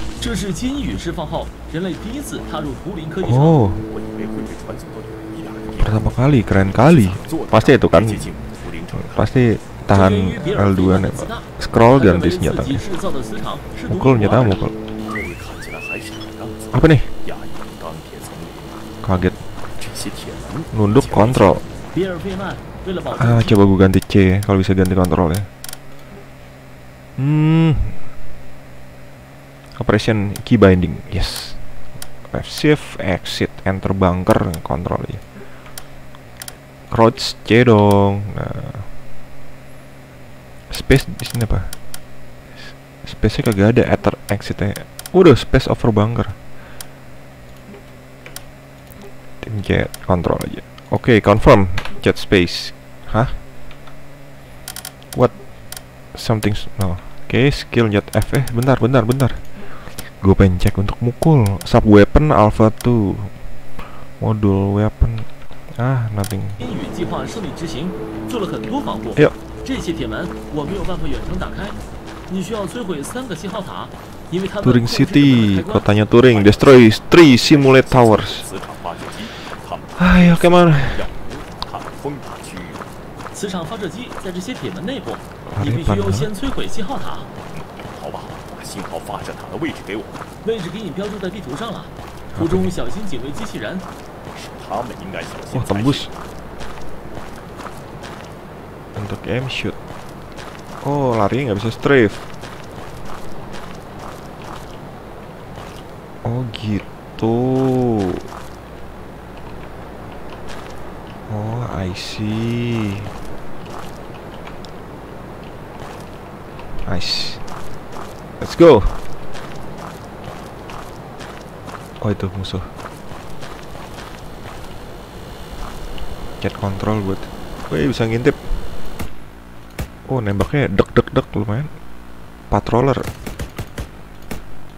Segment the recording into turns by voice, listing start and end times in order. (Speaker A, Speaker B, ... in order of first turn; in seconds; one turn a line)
Speaker A: 0.2-3.6
Speaker B: 3.2-3.9
Speaker C: 3.9-9.3
Speaker B: 5.8-8.3
Speaker B: 8.9-12.8
Speaker A: 9.9-14.6
Speaker B: 13.9-14.7
Speaker C: 14.9-18.8
Speaker B: 16.7-17.1
Speaker B: 19.0-19.4
Speaker C: 19.8-21.6
Speaker B: 20.7-21.6
Speaker A: 21.9-23.6
Speaker B: 23.1-25.5
Speaker B: 27.2-28.0
Speaker B: 29.8-31.6
Speaker B: 32.3-35.2
Speaker B: 36.9-38.9
Speaker B: 40.7-41.7
Speaker B: 42.6-46.3
Speaker B: 49.4-53.4
Speaker B: 56.1-63.3
Speaker B: 64.2-66.6
Speaker A: 66.6-75.9
Speaker B: 74.6-78.5
Speaker C: 76.1-82.8
Speaker B: 80.0-81.1
Speaker A: 83.3-87.3
Speaker B: 85.5-86.3
Speaker C: 87.5-90.2
Speaker A: 90.4-93.8
Speaker B: 92.3-92.7
Speaker C: 94.3-96.1
Speaker B: 95.5-96.1
Speaker B: 99.0-99.8
Speaker B: 100.8-102.3
Speaker B: 106.2-108.3
Speaker B: 111.3-113.1
Speaker B: 116.8-117.4
Speaker B: 118.4-119.0
Speaker B: 122.0-122.7
Speaker B: 126.4-128.5
Speaker B: 130.1-131.7
Speaker B: 132.5-133.0